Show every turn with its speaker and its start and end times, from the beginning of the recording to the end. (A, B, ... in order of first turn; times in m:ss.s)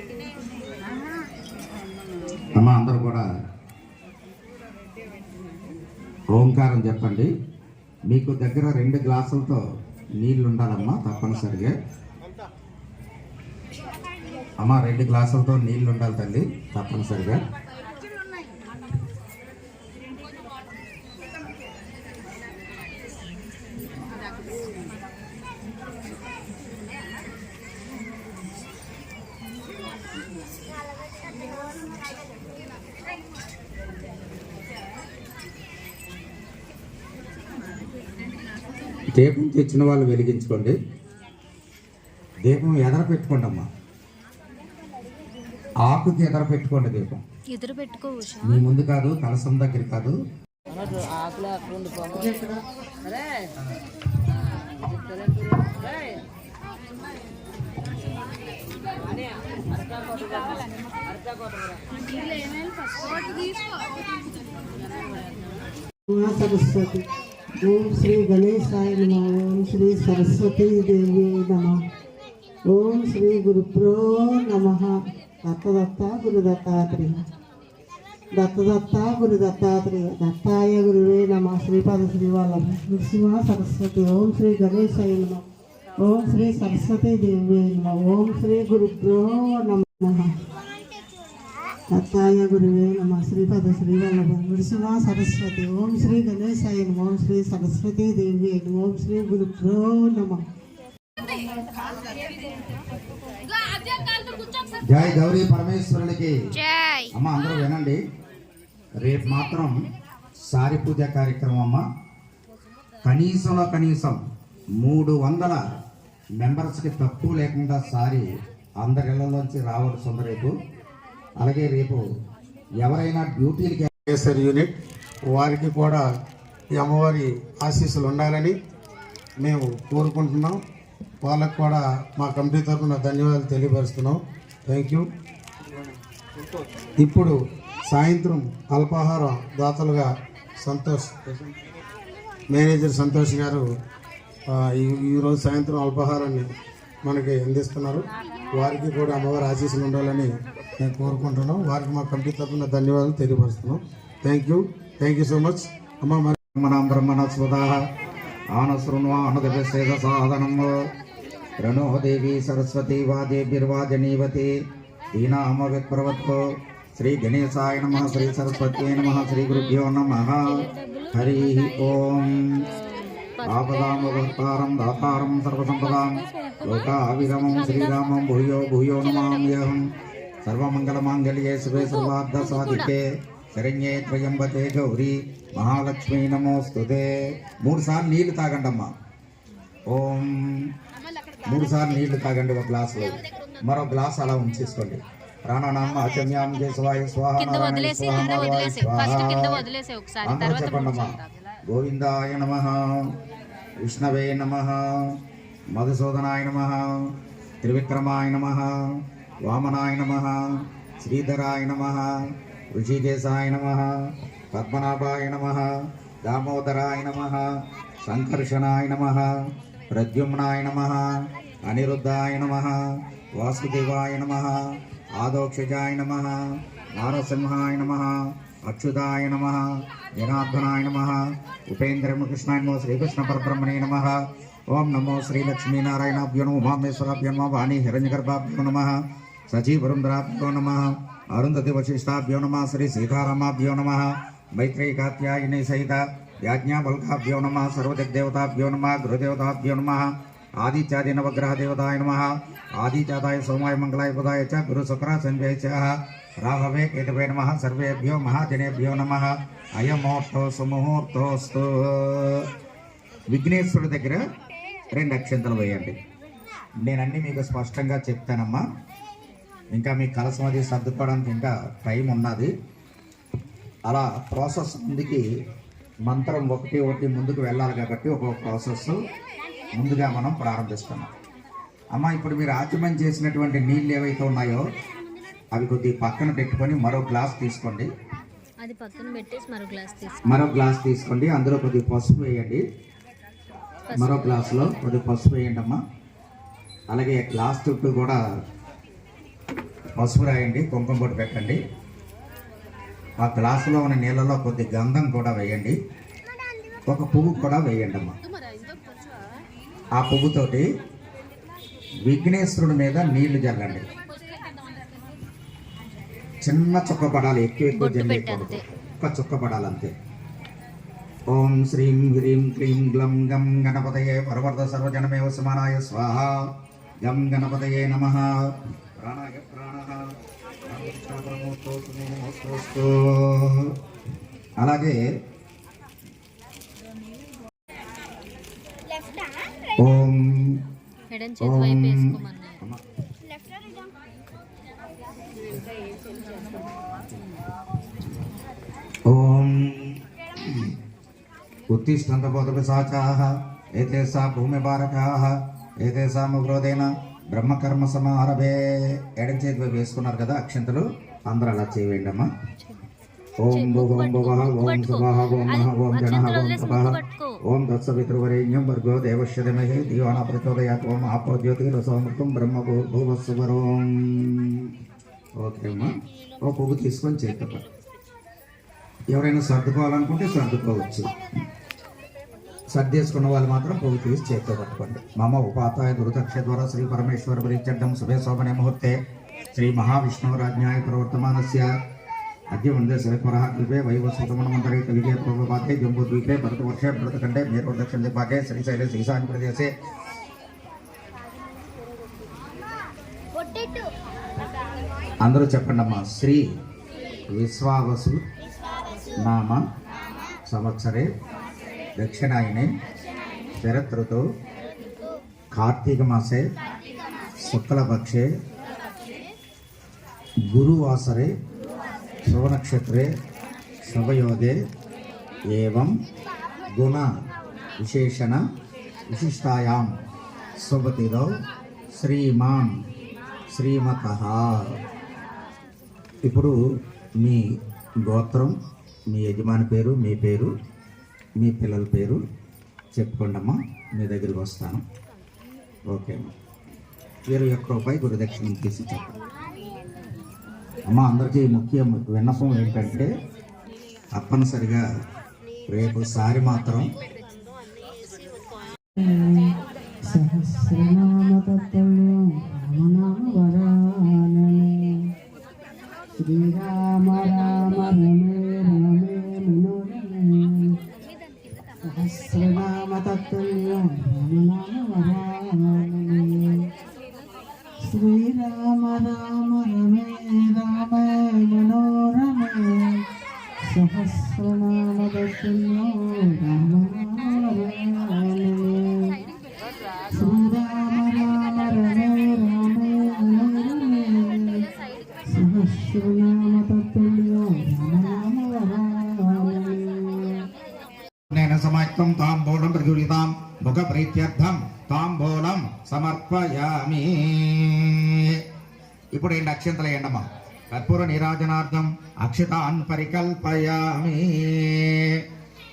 0:02.5-0:03.2 A
0:06.3-0:07.3 A
0:08.1-0:09.6 A
0:10.2-0:11.7 A
0:14.6-0:17.4 A
0:39.1-0:40.8 A
0:42.4-0:43.6 A
0:45.8-0:47.2 A
0:47.5-0:48.6 B
0:48.4-0:50.1 A
0:52.1-0:52.6 C
1:06.1-1:07.0 C
1:07.6-1:11.8 C
1:12.7-1:17.2 C
1:18.4-1:25.4 C
1:26.0-1:30.3 C
1:31.9-1:40.4 C
1:44.8-1:46.4 A
1:47.1-1:48.0 A
1:49.0-1:49.7 A
1:50.4-1:51.8 A
1:53.0-1:54.2 A
1:54.8-1:55.6 A
1:56.4-1:58.2 A
1:58.8-2:00.5 A
2:01.4-2:02.0 A
2:02.8-2:03.9 A
2:04.1-2:04.7 D
2:05.3-2:06.0 D
2:06.7-2:08.5 D
2:09.4-2:10.6 D
2:11.2-2:15.1 D
2:17.0-2:21.5 D
2:22.5-2:23.7 D
2:24.5-2:26.5 D
2:27.0-2:36.4 D
2:36.5-2:37.8 A
2:38.5-2:40.7 A
2:41.6-2:44.5 A
2:45.1-2:46.4 A
2:47.0-2:52.4 A
2:48.1-2:48.4 B
2:50.9-2:51.6 B
2:53.4-2:54.0 B
2:53.4-2:59.8 A
2:57.4-2:58.1 B
2:59.1-2:59.6 B
3:00.4-3:03.0 A
3:01.8-3:02.8 B
3:03.5-3:07.1 A
3:07.6-3:08.9 A
3:09.9-3:10.6 A
3:11.4-3:19.6 A
3:17.4-3:21.1 B
3:20.2-3:23.1 A
3:23.8-3:25.1 A
3:25.7-3:27.0 A
3:27.6-3:28.7 A
3:29.4-3:30.3 A
3:31.0-3:32.1 A
3:32.7-3:33.8 A
3:34.5-3:35.6 A
3:36.2-3:37.4 A
3:38.0-3:39.3 A
3:39.9-3:41.0 A
3:41.6-3:42.7 A
3:43.3-3:44.6 A
3:45.2-3:46.4 A
3:46.9-3:48.1 A
3:48.6-3:49.6 A
3:50.2-3:54.2 A
3:54.7-3:58.9 A
3:59.5-4:10.0 A
4:10.6-4:22.5 A
4:23.3-4:24.2 A
4:24.9-4:26.0 A
4:26.8-4:28.6 A
4:29.7-4:32.5 A
4:33.9-4:35.2 A
4:36.0-4:39.0 A
4:39.7-4:41.1 A
4:41.9-4:44.6 A
4:45.5-4:47.9 A
4:48.6-4:50.2 B
4:50.3-4:52.6 A
4:53.9-4:54.7 B
4:53.9-4:55.8 A
4:56.9-4:58.2 A
4:59.9-5:01.6 A
5:03.2-5:05.8 A
5:06.9-5:08.1 A
5:10.0-5:10.6 A
5:12.0-5:13.8 A
5:16.4-5:19.9 A
5:17.7-5:18.6 B
5:21.3-5:26.4 A
5:27.0-5:28.3 A
5:29.0-5:30.0 A
5:30.7-5:33.7 A
5:34.6-5:35.0 A
5:39.8-5:40.5 A
5:41.1-5:42.6 B
5:41.4-5:42.8 A
5:49.1-5:50.7 A
5:51.7-5:58.6 A
5:59.2-6:02.3 A
6:03.4-6:14.7 A
6:03.5-6:07.4 B
6:15.4-6:15.9 A
6:16.4-6:17.6 A
6:19.1-6:21.1 A
6:22.7-6:28.9 A
6:29.5-6:31.7 A
6:32.5-6:39.7 A
6:45.2-6:46.4 A
6:47.3-6:48.2 A
6:49.2-6:49.6 A
6:50.5-6:51.1 A
6:52.0-6:52.7 A
6:53.6-6:54.2 A
6:55.5-6:56.4 A
6:57.4-6:58.3 A
7:00.5-7:01.3 A
7:02.3-7:03.1 A
7:03.8-7:04.6 A
7:05.5-7:05.9 A
7:06.7-7:07.1 A
7:07.8-7:08.4 A
7:09.1-7:09.9 A
7:10.6-7:11.3 A
7:12.0-7:12.7 A
7:13.5-7:14.7 A
7:16.2-7:16.5 A
7:18.0-7:18.5 A
7:19.1-7:20.5 A
7:21.4-7:22.2 A
7:22.9-7:24.8 A
7:25.9-7:26.3 A
7:27.3-7:29.2 A
7:30.9-7:33.1 A
7:34.1-7:34.8 A
7:35.7-7:36.9 A
7:39.0-7:39.5 C
7:40.1-7:44.9 C
7:46.2-7:50.7 C
7:51.8-7:56.6 C
7:57.9-8:03.0 C
8:03.7-8:09.2 C
8:10.1-8:14.6 C
8:15.3-8:20.4 C
8:21.3-8:28.4 A
8:29.1-8:35.2 A